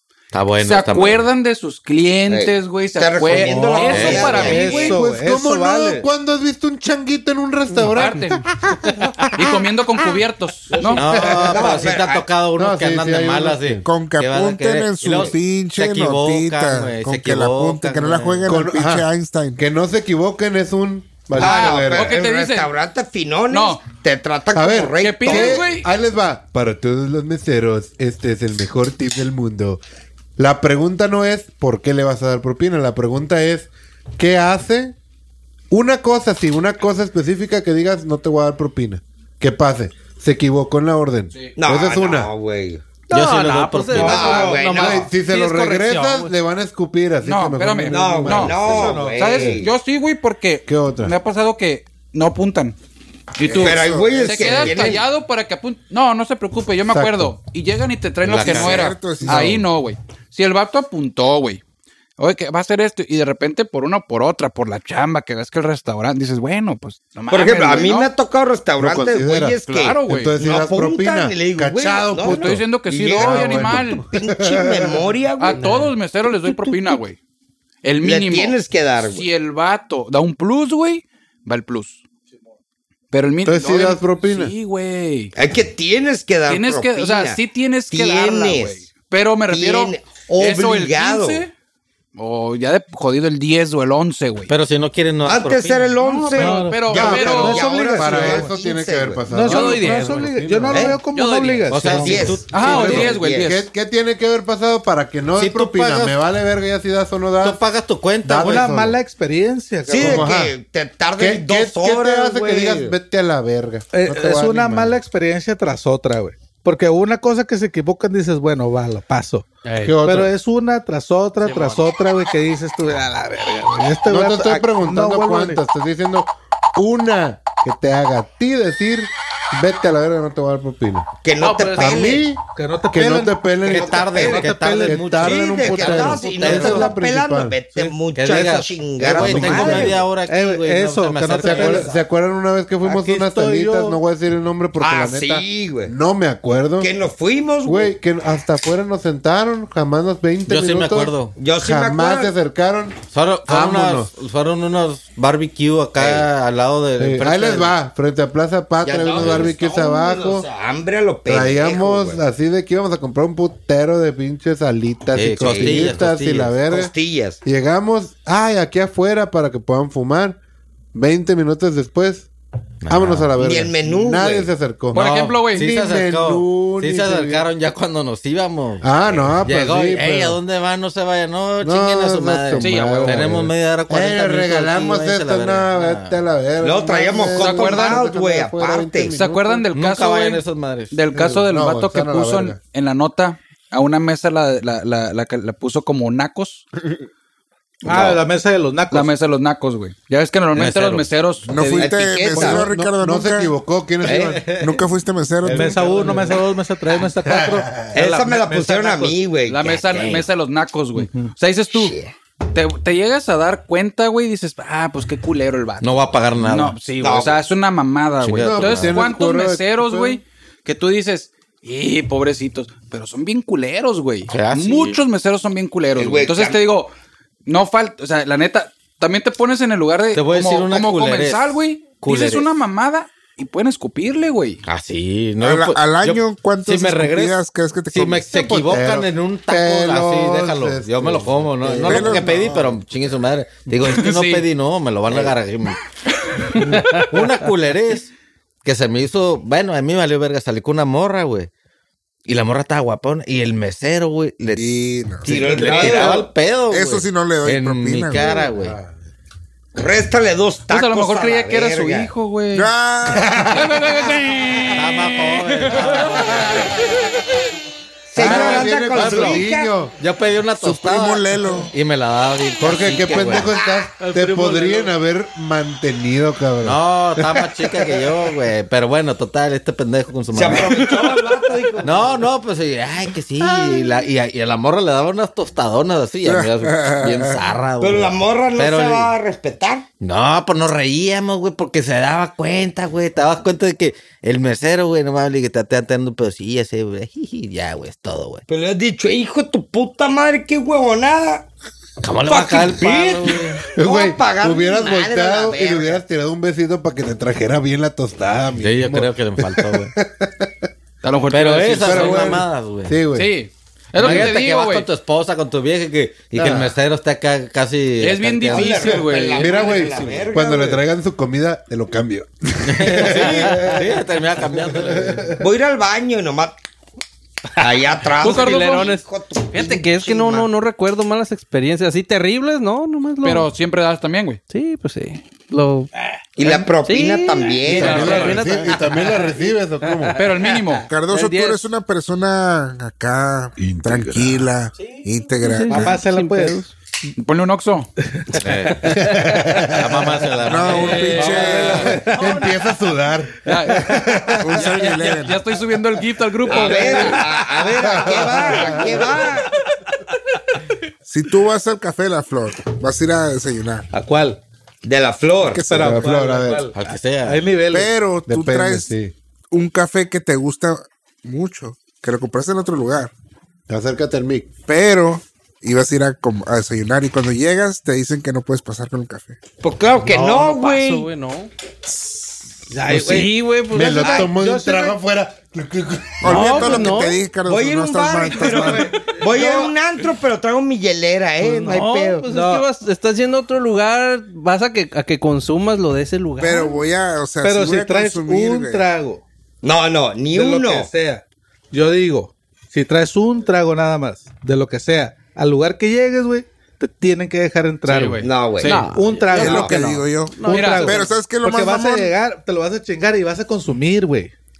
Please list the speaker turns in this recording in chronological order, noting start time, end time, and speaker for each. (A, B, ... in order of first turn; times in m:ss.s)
0:00.3-0:01.2 A
0:00.6-0:05.0 B
0:02.3-0:05.0 C
0:03.3-0:06.1 D
0:03.4-0:04.7 A
0:04.7-0:08.9 E
0:07.9-0:08.4 B
0:09.4-0:11.1 B
0:10.8-0:12.3 C
0:10.9-0:18.5 A
0:11.0-0:11.8 E
0:12.6-0:13.8 E
0:13.8-0:19.6 F
0:18.4-0:22.2 E
0:21.3-0:25.7 C
0:21.3-0:22.7 B
0:23.5-0:23.8 B
0:24.5-0:29.8 E
0:25.0-0:25.9 B
0:30.4-0:35.0 E
0:35.7-0:42.3 E
0:41.6-0:42.8 C
0:43.1-0:46.3 G
0:43.1-0:44.6 A
0:43.9-0:44.6 D
0:43.9-0:45.1 C
0:44.7-0:49.4 E
0:47.2-0:52.8 B
0:47.9-0:49.7 C
0:48.6-0:49.5 D
0:50.7-0:51.1 E
0:53.4-1:01.6 B
0:53.4-0:54.9 F
0:53.5-0:55.0 C
0:56.9-0:57.3 E
0:58.2-0:59.6 A
0:58.3-0:59.5 F
0:59.2-0:59.5 E
1:02.2-1:08.1 B
1:07.3-1:15.7 C
1:08.8-1:15.1 E
1:09.7-1:10.4 B
1:12.2-1:14.0 B
1:15.4-1:17.2 B
1:15.6-1:15.9 G
1:17.8-1:22.0 B
1:18.0-1:19.2 C
1:23.1-1:25.3 B
1:23.4-1:24.5 E
1:25.4-1:28.8 C
1:26.5-1:31.5 B
1:29.5-1:31.4 C
1:32.2-1:34.5 B
1:34.5-1:35.9 A
1:35.2-1:39.2 C
1:36.0-1:37.7 B
1:36.3-1:38.5 D
1:36.9-1:41.0 E
1:39.3-1:42.4 D
1:39.5-1:41.8 G
1:39.5-1:40.1 B
1:41.7-1:43.1 A
1:41.9-1:43.5 C
1:42.5-1:43.6 B
1:42.6-1:47.6 E
1:45.4-1:46.2 A
1:47.4-1:48.7 A
1:48.2-1:49.0 E
1:48.4-1:50.3 D
1:49.9-1:53.0 C
1:49.9-1:50.6 E
1:51.2-1:55.0 E
1:53.9-1:59.5 D
1:59.6-2:00.0 G
1:59.8-2:00.3 E
2:00.0-2:05.6 D
2:01.4-2:01.8 G
2:04.0-2:11.1 E
2:11.2-2:12.2 C
2:11.4-2:12.0 G
2:11.7-2:17.9 E
2:12.5-2:15.0 D
2:13.6-2:16.9 A
2:13.9-2:14.4 C
2:15.1-2:20.0 C
2:16.3-2:16.8 D
2:18.1-2:21.9 A
2:19.0-2:20.0 E
2:19.4-2:21.9 D
2:21.4-2:26.9 E
2:22.8-2:24.0 D
2:24.8-2:25.9 C
2:26.8-2:27.9 C
2:27.6-2:34.1 E
2:30.5-2:31.4 A
2:31.4-2:32.3 C
2:33.1-2:37.7 A
2:37.0-2:40.5 E
2:38.8-2:42.2 C
2:39.2-2:39.5 A
2:41.3-2:46.9 E
2:45.1-2:46.6 A
2:45.4-2:46.0 C
2:46.7-2:47.4 C
2:47.4-2:50.4 E
2:50.9-2:52.3 E
2:52.8-2:53.3 A
2:52.9-2:57.5 E
2:53.4-2:54.5 C
2:54.9-2:55.7 B
2:54.9-3:06.2 A
2:58.8-3:00.4 E
3:01.6-3:09.7 E
3:02.6-3:03.3 B
3:06.6-3:09.2 C
3:07.4-3:08.0 B
3:09.2-3:16.6 B
3:09.7-3:11.0 A
3:11.1-3:12.6 E
3:17.8-3:19.1 D
3:18.9-3:22.0 B
3:20.5-3:21.1 A
3:21.5-3:23.5 F
3:21.8-3:22.7 C
3:22.3-3:24.6 E
3:24.0-3:24.4 C
3:24.4-3:25.8 F
3:25.4-3:29.1 D
3:25.5-3:26.3 E
3:27.2-3:28.0 E
3:27.9-3:30.2 C
3:29.5-3:32.0 B
3:31.0-3:31.3 D
3:31.7-3:32.1 C
3:32.5-3:46.9 B
3:35.8-3:36.8 A
3:37.0-3:37.4 C
3:38.2-3:39.0 A
3:38.4-3:40.2 E
3:44.3-3:45.0 A
3:46.0-3:46.6 C
3:47.4-3:54.6 B
3:50.1-3:52.5 A
3:54.6-4:05.8 A
3:55.4-3:58.2 F
3:58.2-4:02.8 E
4:01.8-4:02.7 F
4:03.8-4:04.4 B
4:06.6-4:08.1 A
4:06.7-4:07.2 G
4:08.6-4:11.5 A
4:12.2-4:18.8 A
4:14.6-4:15.5 F
4:15.2-4:16.3 C
4:16.7-4:18.3 F
4:18.5-4:18.9 E
4:19.8-4:22.1 C
4:20.7-4:22.7 B
4:22.5-4:23.4 F
4:23.1-4:23.8 E
4:23.5-4:26.9 B
4:24.7-4:26.7 A
4:28.1-4:29.7 C
4:28.1-4:29.9 E
4:28.2-4:29.4 A
4:30.0-4:33.5 A
4:30.6-4:31.7 F
4:32.6-4:37.5 E
4:33.5-4:33.8 C
4:34.2-4:34.8 D
4:36.6-4:41.0 A
4:40.3-4:42.3 C
4:41.8-4:49.1 A
4:43.4-4:43.9 C
4:46.2-4:47.4 F
4:47.8-4:49.8 C
4:50.0-4:58.4 A
4:58.5-5:01.5 C
5:02.0-5:03.6 A
5:02.2-5:06.0 C
5:03.8-5:10.7 E
5:08.6-5:09.9 A
5:11.0-5:12.4 B
5:11.3-5:13.0 A
5:11.8-5:13.3 E
5:13.1-5:14.9 B
5:13.9-5:19.0 A
5:16.3-5:16.6 E
5:18.0-5:19.8 B
5:18.5-5:20.8 C
5:19.3-5:24.0 E
5:19.8-5:20.3 A
5:22.6-5:25.4 A
5:24.5-5:25.4 E
5:25.4-5:26.5 C
5:27.6-5:30.5 C
5:28.2-5:33.5 G
5:28.2-5:28.9 B
5:33.2-5:34.4 B
5:34.5-5:35.9 G
5:36.4-5:38.4 C
5:36.4-5:41.7 G
5:37.7-5:40.2 E
5:37.7-5:38.5 B
5:40.2-5:40.9 B
5:40.9-5:46.0 F
5:43.7-5:44.2 E
5:45.4-5:46.7 G
5:45.7-5:46.6 D
5:47.2-5:47.9 B
5:48.4-5:49.0 A
5:48.7-5:49.4 G
5:48.8-5:50.2 E
5:49.7-5:51.8 A
5:50.4-5:52.0 F
5:50.7-5:51.9 B
5:51.2-5:52.1 D
5:51.4-5:52.5 G
5:51.7-5:54.8 E
5:53.4-5:57.3 B
5:54.4-5:55.4 F
5:56.4-5:59.6 C
5:57.8-5:59.0 E
5:58.0-5:59.0 D
6:01.0-6:03.8 F
6:03.9-6:04.4 D
6:04.8-6:05.7 C
6:05.5-6:06.1 F
6:05.6-6:07.9 D
6:05.8-6:06.7 E
6:06.7-6:07.4 A
6:07.7-6:08.9 F
6:08.3-6:09.1 E
6:09.5-6:13.1 F
6:13.7-6:14.5 E
6:14.7-6:19.4 F
6:19.6-6:21.1 C
6:20.0-6:21.5 G
6:22.7-6:23.3 D
6:22.9-6:24.3 G
6:22.9-6:23.2 E
6:23.7-6:26.8 E
6:24.0-6:24.3 C
6:24.3-6:25.0 D
6:26.2-6:29.1 F
6:26.2-6:27.2 G
6:27.4-6:32.2 C
6:28.4-6:29.7 D
6:31.4-6:32.6 D
6:31.6-6:36.8 G
6:36.4-6:38.8 F
6:37.4-6:39.2 D
6:39.6-6:40.9 C
6:40.3-6:54.3 D
6:47.9-6:48.8 B
6:48.2-6:48.8 C
6:48.6-6:51.1 G
6:49.3-6:52.1 F
6:49.4-6:49.7 C
6:50.5-6:50.9 B